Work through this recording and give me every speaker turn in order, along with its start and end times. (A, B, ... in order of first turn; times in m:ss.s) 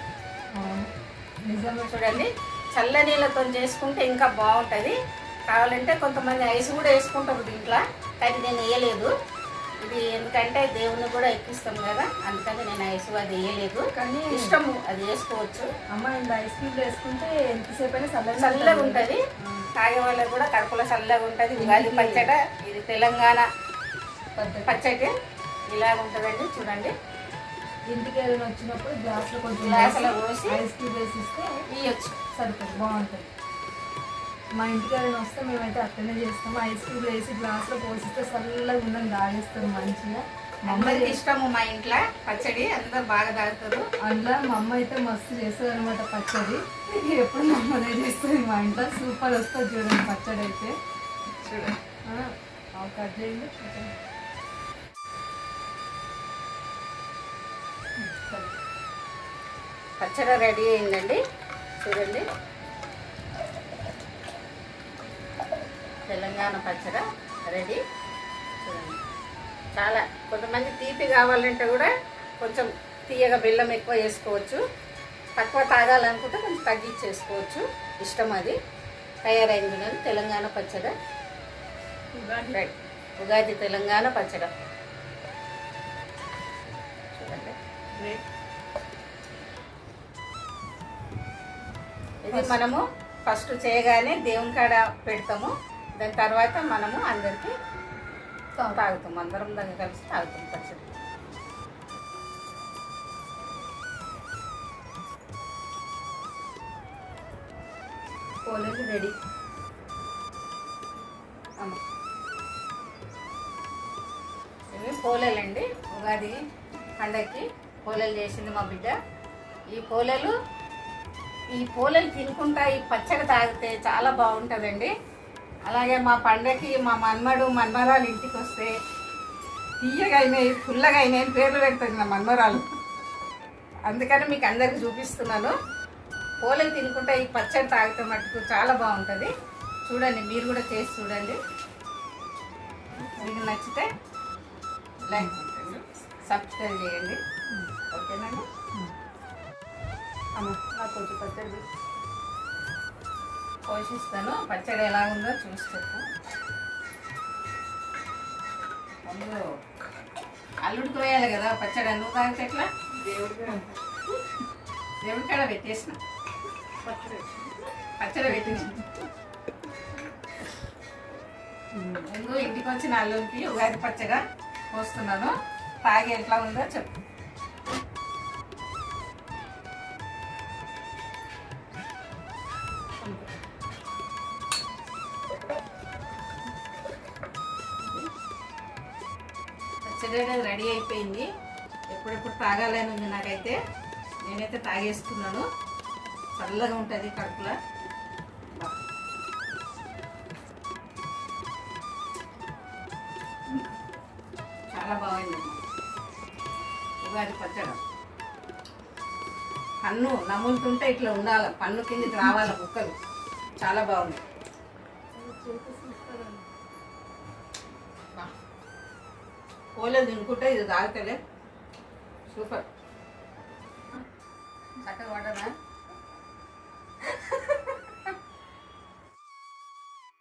0:00.5-0:00.9 A
0:01.4-0:02.1 A
0:01.9-0:05.0 B
0:05.5-0:09.1 B
0:09.8-0:15.7 B
0:14.0-0:14.6 A
0:15.9-0:19.7 A
0:18.4-0:19.2 B
0:19.8-0:23.5 B
0:21.6-0:22.3 A
0:24.4-0:24.7 A
0:24.7-0:25.1 B
0:25.7-0:26.9 B
0:27.9-0:31.6 A
0:29.6-0:30.6 B
0:31.7-0:32.2 B
0:32.3-0:33.3 A
0:34.5-0:41.2 A
0:40.7-0:43.9 B
0:44.0-0:50.8 A
0:51.4-0:51.7 B
0:52.1-0:53.9 A
0:58.0-0:58.5 A
1:00.0-1:01.2 B
1:01.8-1:02.2 B
1:06.1-1:07.8 B
1:08.6-1:09.0 B
1:09.8-1:14.6 B
1:15.4-1:18.6 B
1:19.2-1:20.9 B
1:22.1-1:22.6 A
1:22.5-1:24.5 B
1:27.1-1:27.6 B
1:28.0-1:28.2 A
1:32.2-1:37.5 B
1:32.3-1:32.6 A
1:38.7-1:40.9 B
1:48.4-1:49.1 A
1:54.7-1:56.4 B
1:57.0-1:58.9 B
1:59.7-2:00.4 B
2:01.6-2:04.9 B
2:05.7-2:08.7 B
2:09.8-2:12.6 B
2:13.9-2:15.5 B
2:16.4-2:19.3 B
2:19.9-2:21.4 B
2:23.2-2:23.9 B
2:25.0-2:27.2 B
2:27.9-2:28.4 B
2:30.4-2:31.6 A
2:33.7-2:36.1 B
2:39.1-2:39.4 B
2:40.6-2:42.7 B
2:43.0-2:43.7 A
2:45.0-2:46.0 B
2:46.8-2:47.3 A
2:48.0-2:48.8 B
2:48.3-2:48.8 A
2:51.8-2:56.9 B
3:09.8-3:11.3 B
3:11.9-3:13.6 B
3:14.3-3:15.5 B
3:16.4-3:17.6 B
3:24.7-3:25.6 B
3:27.0-3:27.8 B
3:29.8-3:32.9 B
3:33.6-3:34.2 B
3:35.1-3:36.4 A
3:39.8-3:41.2 B
3:42.3-3:42.6 B
3:44.8-3:45.5 B
3:47.1-3:47.6 B